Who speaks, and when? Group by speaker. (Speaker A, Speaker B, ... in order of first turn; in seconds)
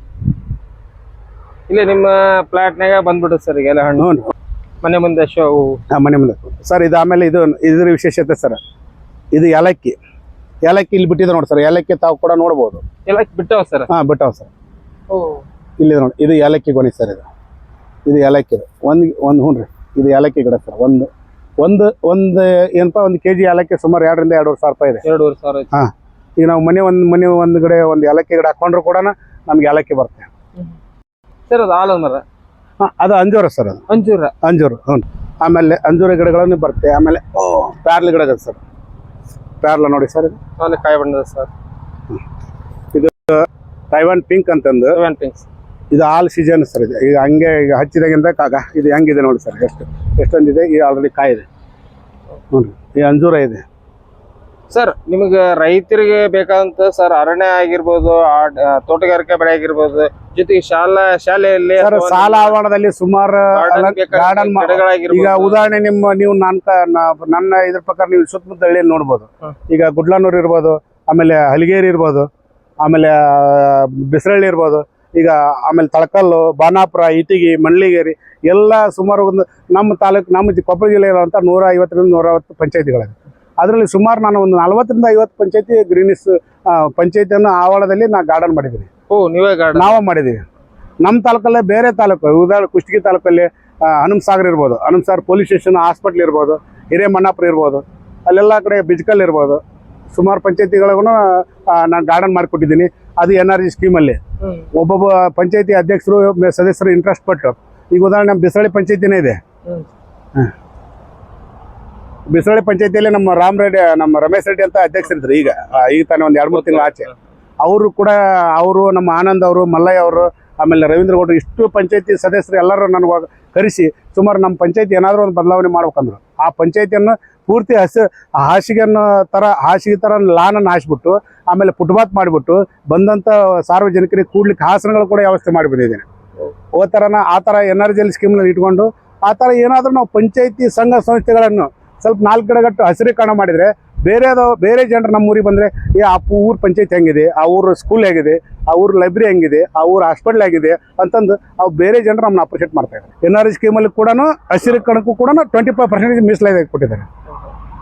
Speaker A: 1.7-4.1, 4.8-5.8, 13.1-13.9, 15.1-15.4, 25.0-25.7, 31.5-32.2, 33.9-34.3, 40.6-41.5, 44.9-45.5, 54.7-62.6, 63.5-65.6, 89.1-90.0, 104.4-104.7, 116.5-117.1
Speaker B: 4.0-4.3, 5.9-8.6, 9.3-10.0, 10.6-12.8, 13.9-14.5, 15.8-17.2, 18.1-21.1, 21.6-25.0, 25.7-30.3, 32.8-33.8, 34.4-38.6, 39.6-40.4, 42.9-45.0, 45.9-51.5, 52.5-53.6, 61.8-72.3, 72.8-88.9, 89.7-90.4, 91.0-99.6, 100.1-104.2, 104.7-109.4, 112.3-117.1, 117.6-136.0, 136.7-157.1